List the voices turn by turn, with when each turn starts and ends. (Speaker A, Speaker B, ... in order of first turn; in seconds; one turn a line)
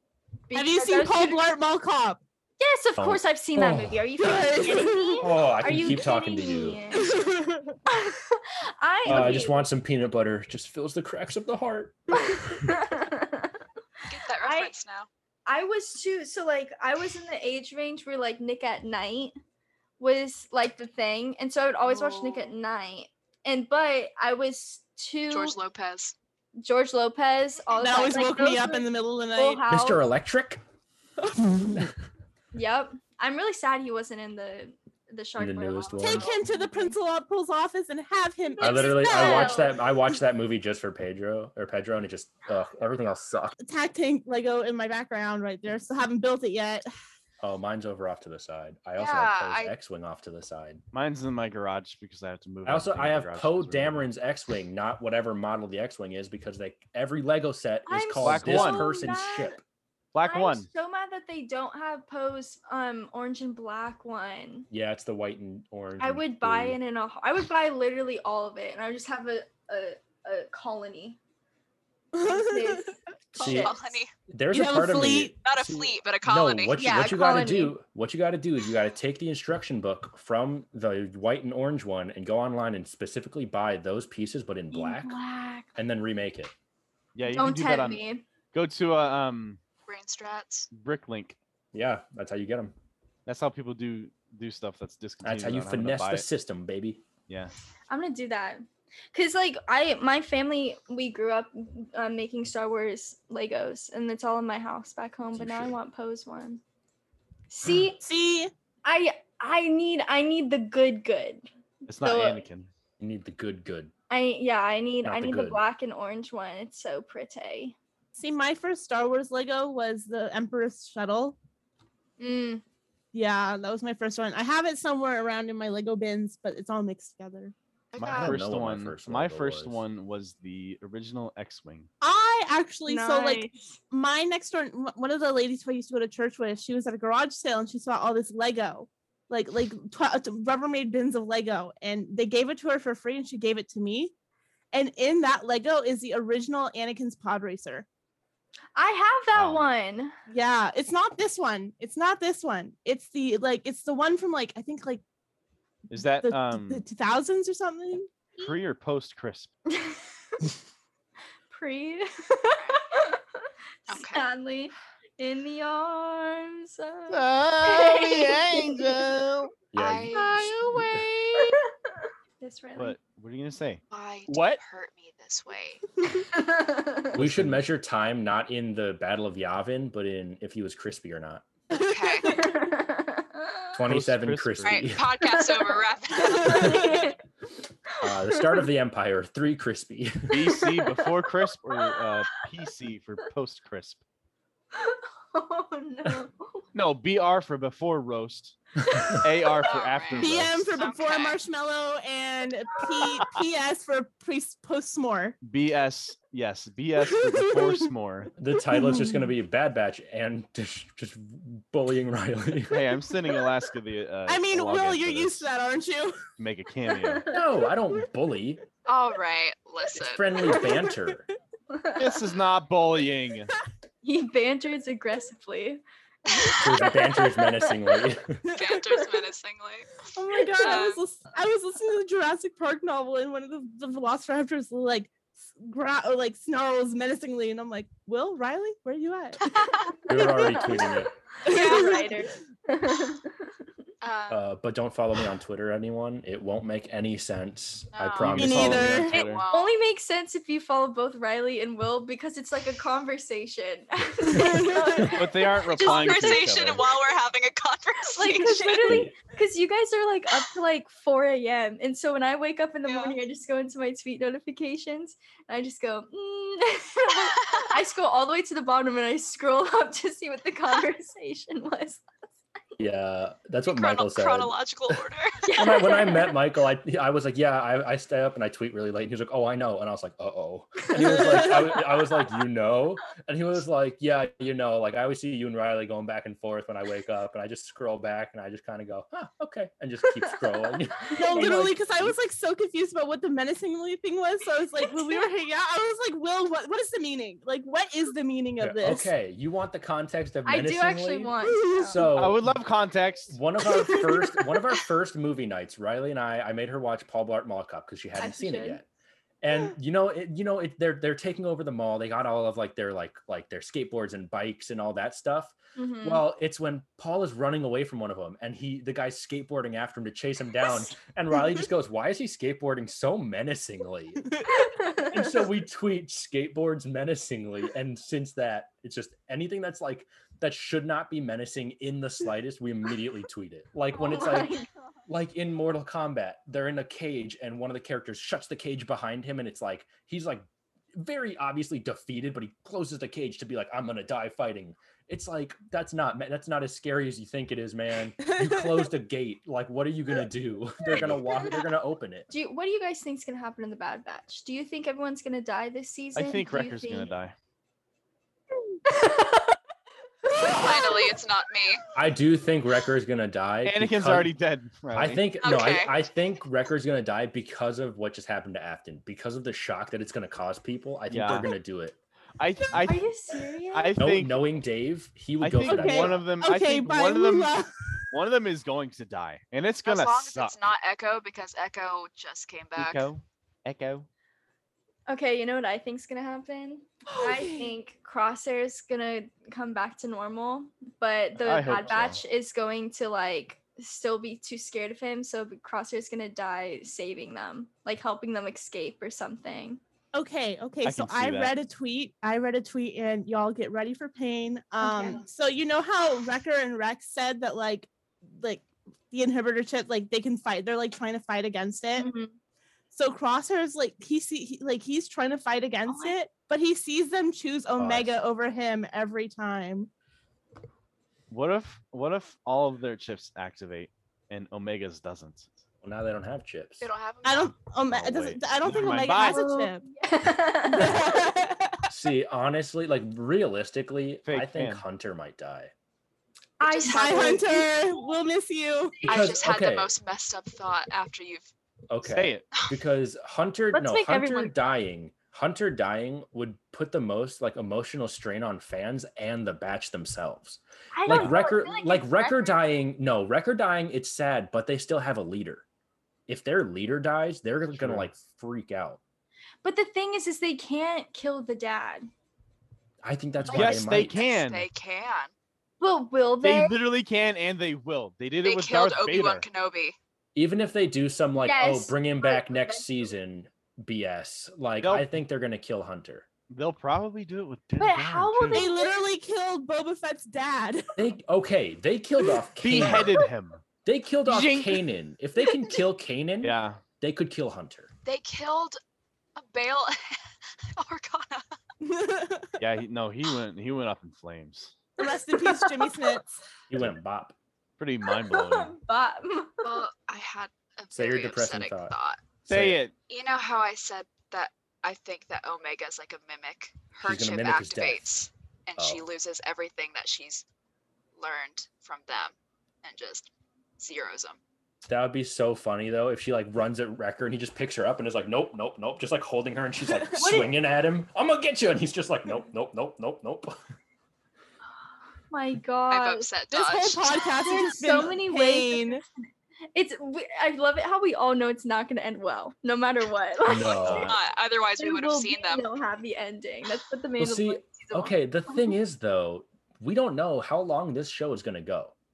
Speaker A: 0.5-1.4
Speaker B: 0.5-2.2
Speaker A: 2.6-7.2
Speaker C: 3.0-4.5
Speaker B: 4.2-5.3
Speaker C: 5.2-6.8
Speaker B: 7.0-7.8
Speaker A: 7.8-9.7
Speaker C: 9.1-12.7
Speaker A: 12.1-13.6
Speaker D: 14.1-15.1
Speaker A: 14.4-14.7
Speaker A: 15.4-19.4
Speaker A: 20.0-25.6
Speaker D: 21.9-22.5
Speaker D: 25.3-26.1
Speaker A: 26.6-30.0
Speaker B: 27.8-29.6
Speaker C: 29.7-30.6
Speaker B: 31.2-31.9
Speaker A: 32.5-37.0
Speaker C: 35.4-36.3
Speaker B: 36.0-39.5
Speaker A: 38.5-39.8
Speaker C: 38.6-43.5
Speaker B: 43.6-46.9
Speaker C: 47.4-50.8
Speaker D: 49.0-49.7
Speaker E: 50.9-54.0
Speaker C: 52.6-59.6
Speaker A: 57.9-59.6
Speaker E: 58.2-59.1
Speaker E: 60.1-60.7
Speaker A: 60.2-64.7
Speaker C: 64.7-66.8
Speaker A: 66.0-71.2
Speaker B: 72.1-72.9
Speaker A: 72.2-74.0
Speaker C: 73.3-73.7
Speaker D: 73.4-74.1
Speaker C: 74.3-85.2
Speaker B: 74.5-75.3
Speaker D: 75.4-76.8
Speaker A: 76.8-77.8
Speaker A: 84.7-85.7
Speaker C: 85.7-86.5
Speaker E: 87.1-89.6
Speaker A: 87.3-88.2
Speaker D: 89.9-90.7
Speaker E: 90.7-91.4
Speaker C: 91.7-92.7
Speaker E: 93.2-96.3
Speaker C: 95.2-97.1
Speaker A: 97.9-106.6
Speaker C: 105.3-105.8
Speaker A: 107.5-108.0
Speaker B: 108.0-108.5
Speaker A: 108.8-112.4
Speaker E: 111.9-112.7
Speaker C: 113.0-113.9
Speaker A: 114.1-117.8
Speaker C: 115.0-115.6
Speaker B: 118.2-121.3
Speaker A: 122.2-122.6
Speaker B: 123.1-127.5
Speaker D: 127.9-128.4
Speaker E: 128.0-131.9
Speaker C: 128.2-129.8
Speaker B: 132.0-144.1
Speaker A: 132.9-133.7
Speaker B: 144.7-147.8
Speaker A: 148.8-150.1
Speaker E: 149.3-149.6
Speaker B: 150.3-155.0
Speaker E: 155.9-156.8
Speaker B: 155.9-158.1
Speaker E: 158.4-159.5
Speaker A: 159.7-160.0
Speaker A: 161.5-169.1
Speaker D: 162.5-162.8
Speaker D: 163.9-164.2
Speaker E: 167.1-169.5
Speaker C: 169.7-171.0
Speaker D: 169.8-170.6
Speaker E: 170.1-171.5
Speaker A: 171.3-173.0
Speaker E: 172.7-174.6
Speaker D: 173.9-175.9
Speaker A: 176.3-177.1
Speaker E: 177.1-177.6
Speaker C: 177.2-181.4
Speaker D: 181.7-182.4
Speaker B: 181.7-182.5
Speaker A: 182.2-183.7
Speaker C: 183.7-185.0
Speaker E: 183.8-184.9
Speaker D: 184.6-186.9
Speaker A: 185.2-187.2
Speaker C: 186.5-186.9
Speaker A: 187.9-188.6
Speaker C: 188.0-190.5
Speaker E: 190.3-194.0
Speaker A: 190.6-191.1
Speaker A: 191.7-192.0
Speaker A: 194.7-196.6
Speaker E: 196.7-198.6
Speaker E: 199.1-200.7
Speaker D: 199.6-201.4
Speaker B: 200.2-205.4
Speaker E: 205.4-208.3
Speaker B: 207.2-207.7
Speaker C: 208.4-212.8
Speaker B: 208.6-209.3
Speaker E: 212.7-215.5
Speaker B: 214.3-216.3
Speaker E: 216.4-217.3
Speaker C: 217.3-218.6
Speaker D: 218.8-220.3
Speaker C: 219.9-221.2
Speaker B: 220.5-220.9
Speaker A: 221.7-222.1
Speaker E: 222.0-223.5
Speaker A: 224.0-227.8
Speaker C: 226.6-228.5
Speaker B: 228.5-228.9
Speaker D: 228.5-230.0
Speaker B: 230.1-239.4
Speaker D: 230.6-231.0
Speaker D: 239.4-239.9
Speaker C: 240.1-241.1
Speaker B: 240.1-240.9
Speaker A: 240.2-243.4
Speaker B: 241.4-242.2
Speaker D: 244.0-244.5
Speaker C: 244.3-249.1
Speaker D: 247.9-249.7
Speaker E: 248.2-249.4
Speaker B: 248.3-249.1
Speaker A: 249.5-256.6
Speaker B: 254.3-255.1
Speaker E: 255.1-256.8
Speaker D: 255.8-259.0
Speaker A: 258.1-272.0
Speaker C: 258.8-259.1
Speaker D: 262.9-263.1
Speaker D: 267.4-267.7
Speaker C: 272.8-275.0
Speaker D: 273.7-275.4
Speaker A: 275.4-276.4
Speaker C: 275.6-292.1
Speaker A: 291.0-291.6
Speaker B: 291.1-299.1
Speaker A: 294.9-295.2
Speaker C: 298.6-302.6
Speaker A: 300.4-302.1
Speaker B: 301.6-302.1
Speaker E: 302.1-303.4
Speaker C: 303.3-308.9
Speaker B: 303.7-304.4
Speaker A: 308.2-308.8
Speaker C: 309.4-324.2
Speaker A: 315.8-316.2
Speaker A: 324.6-325.2
Speaker C: 324.9-352.3
Speaker A: 333.9-334.7
Speaker B: 348.3-348.7
Speaker E: 350.9-351.2
Speaker A: 352.3-357.1
Speaker E: 356.1-357.3
Speaker A: 358.9-359.6
Speaker D: 360.4-361.8
Speaker A: 360.5-360.9
Speaker C: 361.9-364.3
Speaker E: 363.6-365.2
Speaker C: 364.9-372.0
Speaker D: 365.4-366.0
Speaker E: 371.1-371.5
Speaker E: 372.4-373.1
Speaker A: 372.8-374.1
Speaker E: 373.7-374.4
Speaker C: 374.0-376.3
Speaker E: 375.4-377.6
Speaker B: 375.6-377.7
Speaker E: 378.1-380.6
Speaker D: 379.8-383.1
Speaker E: 382.8-384.1
Speaker A: 385.1-399.8
Speaker B: 387.1-387.7
Speaker E: 391.4-392.2
Speaker C: 391.8-392.2
Speaker B: 400.1-412.1
Speaker E: 400.8-401.5
Speaker A: 404.8-405.2
Speaker A: 412.0-412.3
Speaker B: 412.9-419.9
Speaker A: 415.9-416.1
Speaker C: 417.8-418.2
Speaker E: 421.3-425.5
Speaker C: 425.8-426.9
Speaker D: 426.8-427.6
Speaker B: 427.2-429.9
Speaker E: 427.9-429.4
Speaker A: 429.2-431.4
Speaker B: 430.6-431.9
Speaker C: 431.9-435.7
Speaker E: 434.2-434.8
Speaker A: 436.6-438.1
Speaker D: 436.6-437.6
Speaker B: 436.8-439.1
Speaker C: 439.0-439.9
Speaker D: 439.1-441.5
Speaker C: 441.9-455.6
Speaker E: 442.1-442.4
Speaker A: 443.7-444.6
Speaker A: 450.9-452.6
Speaker E: 451.1-451.3
Speaker C: 456.3-459.0
Speaker E: 457.7-458.1
Speaker A: 459.6-462.1
Speaker C: 463.0-464.2
Speaker E: 463.5-464.7
Speaker D: 464.0-465.3
Speaker A: 465.8-466.8
Speaker E: 466.4-469.4
Speaker D: 468.4-469.9
Speaker C: 470.3-476.3
Speaker A: 471.4-472.9
Speaker E: 474.8-475.1
Speaker E: 476.5-478.7
Speaker A: 477.8-479.0
Speaker B: 478.5-480.9
Speaker C: 481.0-483.2
Speaker E: 482.6-483.6
Speaker C: 483.8-487.9
Speaker E: 484.3-484.8
Speaker E: 486.4-486.8
Speaker D: 488.0-488.8
Speaker D: 489.4-490.2
Speaker D: 490.8-491.5
Speaker B: 491.8-492.6
Speaker E: 492.6-494.7
Speaker B: 495.0-496.4
Speaker A: 495.4-496.1
Speaker C: 496.7-497.4
Speaker E: 497.8-498.8
Speaker A: 498.1-499.8
Speaker D: 499.6-502.2
Speaker C: 500.9-501.9
Speaker C: 502.4-502.8
Speaker E: 502.5-502.9
Speaker D: 503.1-510.4
Speaker C: 507.0-508.1
Speaker C: 508.8-509.0
Speaker D: 511.2-514.4
Speaker C: 514.9-523.5
Speaker A: 520.1-520.5
Speaker A: 525.3-526.3
Speaker D: 525.9-527.6
Speaker B: 526.5-529.0
Speaker A: 527.4-534.0
Speaker C: 533.5-534.1
Speaker E: 533.7-534.2
Speaker D: 533.8-535.7
Speaker A: 534.8-538.8
Speaker C: 537.2-541.9